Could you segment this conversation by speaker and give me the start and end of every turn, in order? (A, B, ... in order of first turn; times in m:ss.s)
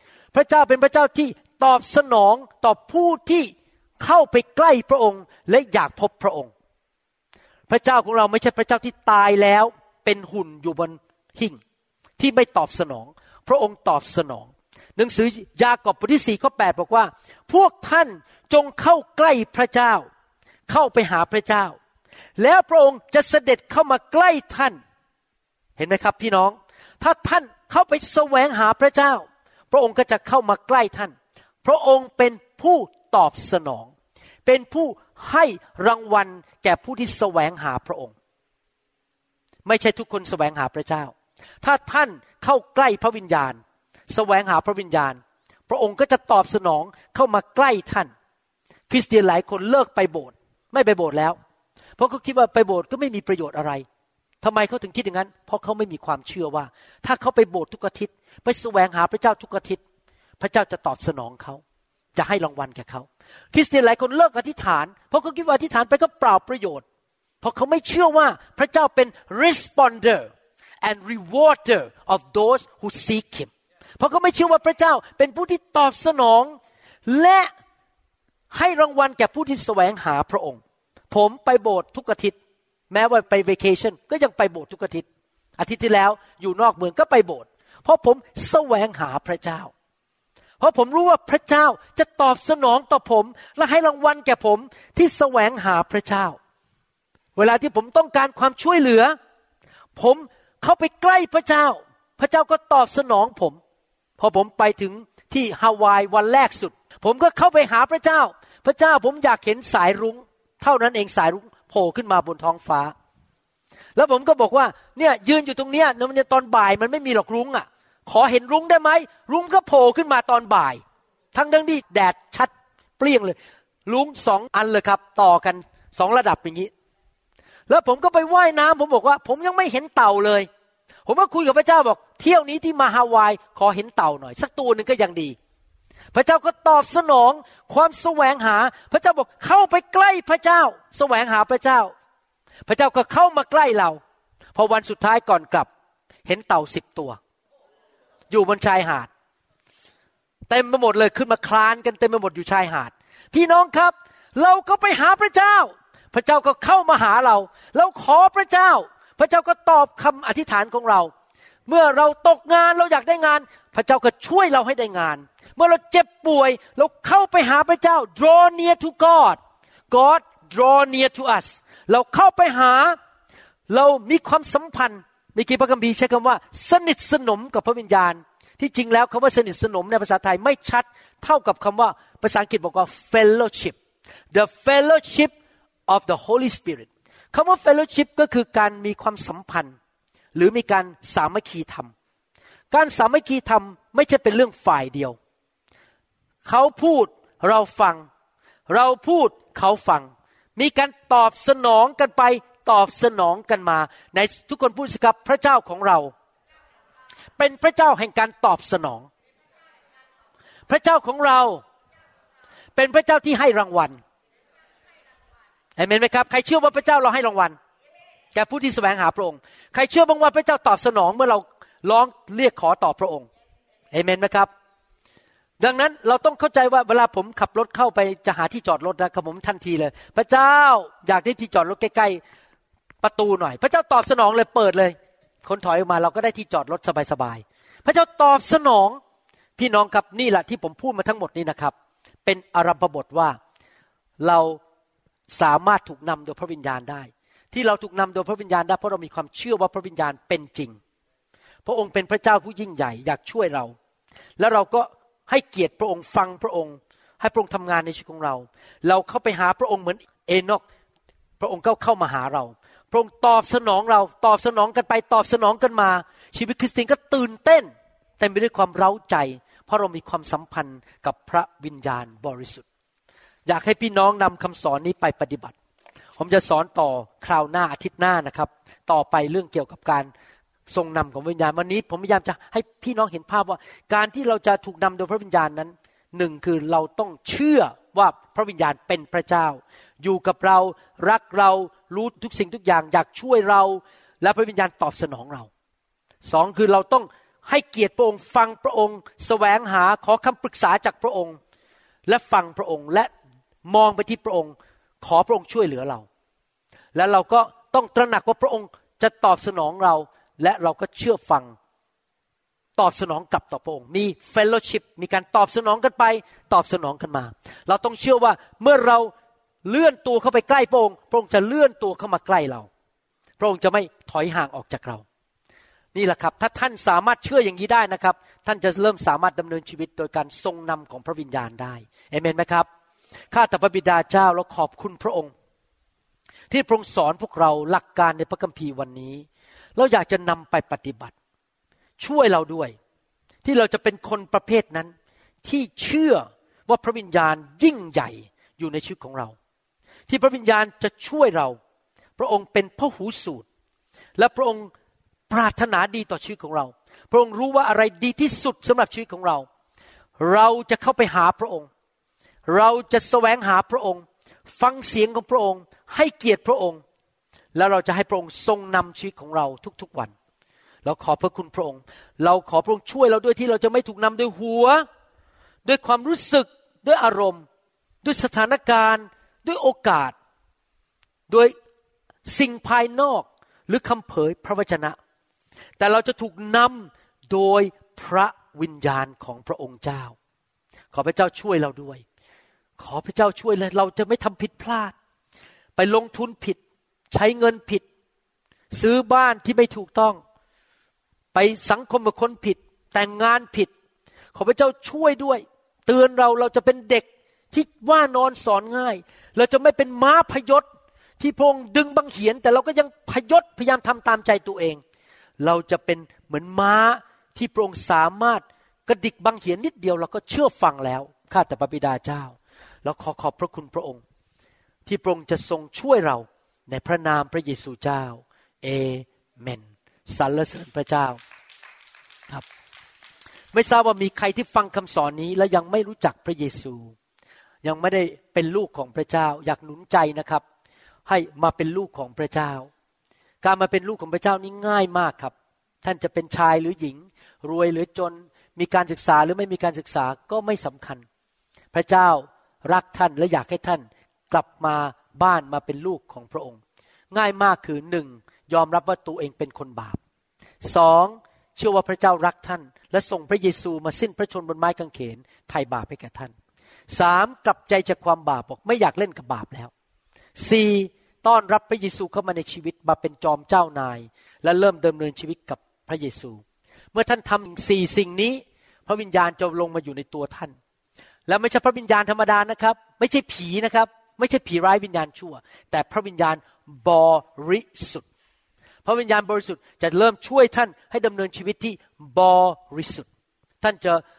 0:00.3-0:06.5 A
0:07.7-0:11.6 A
0:12.2-0:20.0 A
0:20.7-0:21.8 A
0:22.4-0:24.8 A
0:25.8-0:33.9 A
0:34.4-0:38.1 A
0:39.6-0:48.1 A
0:48.9-0:51.4 A
0:52.0-0:53.8 A
0:54.4-0:59.8 A
1:00.4-1:01.6 A
1:02.1-1:06.8 A
1:07.4-1:10.3 A
1:10.8-1:17.5 A
1:18.5-1:20.6 A
1:21.1-1:22.4 A
1:22.9-1:25.0 A
1:25.6-1:29.7 A
1:30.6-1:36.4 A
1:37.4-1:39.2 A
1:40.0-1:43.6 A
1:44.2-1:52.9 A
1:54.0-2:00.8 A
2:01.3-2:06.7 A
2:07.7-2:10.5 A
2:11.0-2:15.4 A
2:16.1-2:21.9 A
2:22.7-2:24.0 A
2:24.5-2:25.7 A
2:26.2-2:27.2 A
2:28.3-2:29.1 A
2:30.5-2:41.1 A
2:41.7-2:49.4 A
2:49.9-2:53.0 A
2:53.7-3:03.8 A
3:04.3-3:05.3 A
3:05.9-3:09.8 A
3:10.3-3:11.9 A
3:12.7-3:15.2 A
3:16.4-3:18.1 A
3:18.7-3:26.1 A
3:27.4-3:29.1 A
3:30.7-3:31.6 A
3:32.7-3:34.0 A
3:35.8-3:37.6 A
3:38.3-3:43.3 A
3:43.9-3:44.5 A
3:45.6-3:52.2 A
3:53.0-3:59.0 A
3:59.6-4:01.7 A
4:02.2-4:03.4 A
4:04.2-4:04.6 A
4:05.3-4:10.8 A
4:11.6-4:13.7 A
4:14.4-4:20.6 A
4:21.4-4:32.6 A
4:33.4-4:35.5 A
4:36.2-4:40.1 A
4:40.7-4:55.5 A
4:56.2-5:01.4 A
5:02.0-5:03.1 A
5:03.6-5:06.0 A
5:06.9-5:11.5 A
5:12.8-5:19.1 A
5:19.6-5:22.7 A
5:23.4-5:25.0 A
5:25.9-5:32.6 A
5:33.3-5:35.3 A
5:36.5-5:39.2 A
5:39.8-5:41.1 A
5:42.0-5:42.8 A
5:43.4-5:44.9 A
5:45.4-5:49.4 A
5:50.1-5:51.6 A
5:52.2-5:53.4 A
5:54.2-5:54.7 A
5:55.3-5:59.5 A
6:00.2-6:01.7 A
6:02.5-6:06.8 A
6:07.5-6:10.1 A
6:10.8-6:14.8 A
6:15.6-6:17.4 A
6:18.0-6:20.1 A
6:21.3-6:21.5 A
6:22.2-6:25.0 A
6:25.8-6:30.1 A
6:30.9-6:32.0 A
6:32.8-6:34.9 A
6:35.8-6:36.6 A
6:37.1-6:37.8 A
6:38.7-6:40.2 A
6:41.3-6:43.7 A
6:44.3-6:50.6 A
6:51.2-6:54.8 A
6:55.4-7:04.0 A
7:04.8-7:11.2 A
7:13.5-7:16.9 A
7:17.6-7:20.4 A
7:21.0-7:22.7 A
7:23.4-7:31.0 A
7:31.7-7:36.6 A
7:37.1-7:40.0 A
7:40.6-7:46.3 A
7:46.9-7:49.7 A
7:50.4-7:56.4 A
7:56.9-8:00.6 A
8:01.3-8:08.0 A
8:08.8-8:13.1 A
8:13.6-8:14.0 A